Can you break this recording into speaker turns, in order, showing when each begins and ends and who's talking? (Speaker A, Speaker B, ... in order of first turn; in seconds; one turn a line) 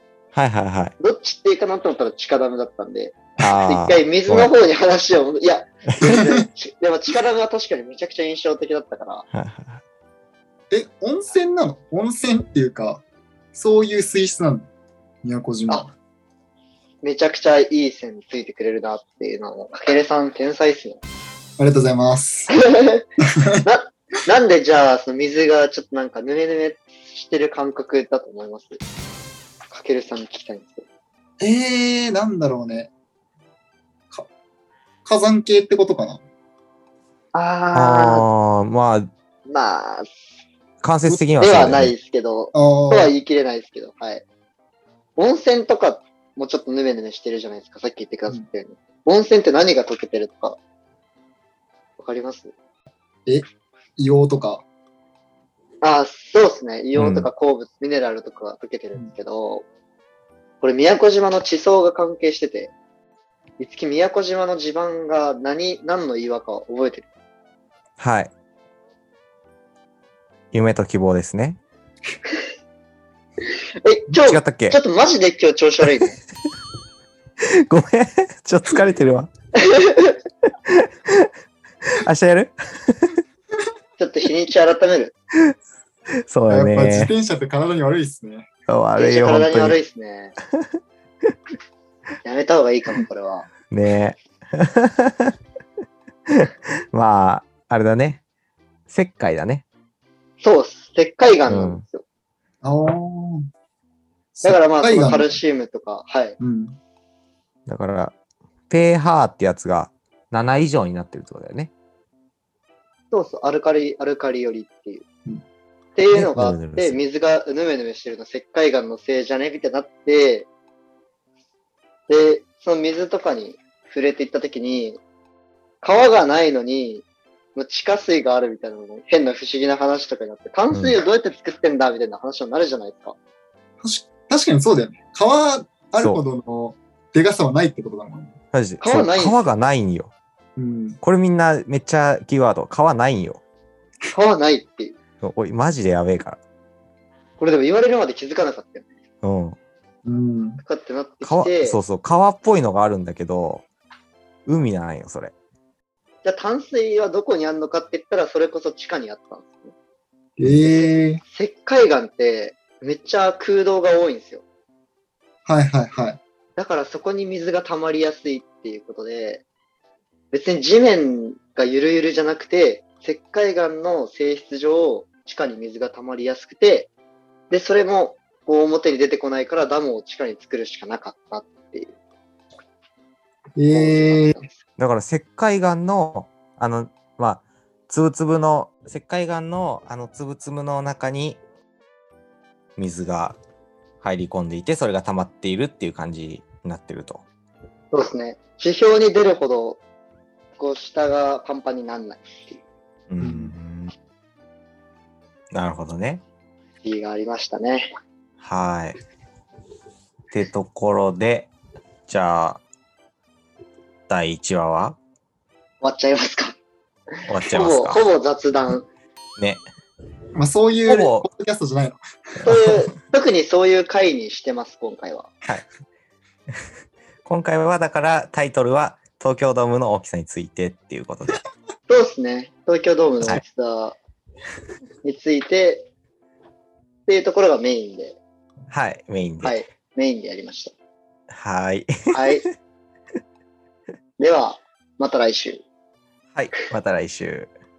Speaker A: 0.3-0.9
Speaker B: 1.0-9.2
Speaker A: 3.4-4.5
Speaker C: 6.0-6.5
Speaker A: 9.3-9.8
Speaker C: 10.7-13.0
Speaker C: 13.5-14.7
Speaker C: 15.2-15.9
Speaker B: 17.0-21.0
Speaker C: 21.6-22.5
Speaker B: 22.5-23.0
Speaker C: 23.4-23.6
Speaker B: 23.6-28.8
Speaker B: 29.7-30.8
Speaker C: 31.4-32.9
Speaker C: 35.0-36.2
Speaker B: 37.3-38.2
Speaker A: 37.7-39.1
Speaker B: 39.5-40.1
Speaker A: 40.8-41.9
Speaker B: 41.4-44.2
Speaker C: 42.5-43.1
Speaker B: 45.2-50.6
Speaker B: 52.0-52.5
Speaker C: 54.0-54.6
Speaker B: 55.8-59.6
Speaker A: 56.9-57.3
Speaker B: 60.6-62.7
Speaker B: 63.6-67.1
Speaker A: 68.0-68.3
Speaker A: 70.5-71.6
Speaker B: 73.8-76.2
Speaker A: 74.2-74.8
Speaker A: 77.4-79.3
Speaker B: 79.6-80.2
Speaker A: 80.7-81.3
Speaker A: 81.9-83.1
Speaker B: 84.0-85.1
Speaker A: 86.3-87.1
Speaker C: 86.5-88.5
Speaker A: 88.7-89.8
Speaker B: 89.0-90.3
Speaker B: 92.2-93.5
Speaker A: 93.7-95.3
Speaker A: 96.3-98.2
Speaker A: 98.9-99.6
Speaker B: 100.4-102.0
Speaker A: 101.5-101.8
Speaker C: 102.6-103.5
Speaker C: 104.3-105.4
Speaker B: 104.4-106.4
Speaker C: 106.4-106.8
Speaker A: 107.7-108.1
Speaker A: 108.7-111.7
Speaker B: 113.1-115.0
Speaker B: 116.0-120.5
Speaker A: 116.1-117.0
Speaker B: 122.1-125.0
Speaker B: 125.8-127.0
Speaker B: 127.5-133.1
Speaker A: 130.7-131.0
Speaker C: 133.8-138.3
Speaker A: 136.0-136.2
Speaker A: 138.5-140.1
Speaker B: 138.8-139.4
Speaker C: 140.6-141.0
Speaker A: 141.0-143.4
Speaker B: 144.1-144.9
Speaker A: 145.2-146.4
Speaker B: 147.4-148.9
Speaker A: 149.2-149.6
Speaker C: 150.0-150.6
Speaker B: 150.6-151.8
Speaker A: 151.2-153.6
Speaker A: 154.4-155.3
Speaker B: 156.2-159.7
Speaker C: 160.4-161.2
Speaker B: 160.6-164.4
Speaker C: 165.4-166.2
Speaker B: 166.6-169.4
Speaker B: 170.3-176.9
Speaker B: 177.5-181.9
Speaker C: 183.6-184.3
Speaker B: 183.7-184.6
Speaker A: 184.8-191.4
Speaker A: 192.8-193.4
Speaker A: 194.0-197.2
Speaker B: 197.9-199.8
Speaker B: 200.6-202.6
Speaker A: 203.1-203.9
Speaker C: 203.2-203.5
Speaker A: 205.5-206.2
Speaker B: 206.8-207.9
Speaker A: 208.4-209.0
Speaker A: 210.3-211.5
Speaker A: 212.1-212.6
Speaker A: 214.1-215.0
Speaker B: 215.8-216.6
Speaker A: 217.3-218.0
Speaker B: 217.4-218.8
Speaker C: 220.3-222.0
Speaker A: 220.9-221.2
Speaker A: 222.4-222.8
Speaker B: 222.4-225.3
Speaker A: 227.2-231.4
Speaker B: 231.9-234.0
Speaker B: 235.0-235.9
Speaker B: 237.1-238.2
Speaker A: 238.7-239.6
Speaker B: 239.4-240.7
Speaker A: 241.3-242.2
Speaker B: 242.1-242.4
Speaker B: 244.2-245.6
Speaker A: 246.3-247.5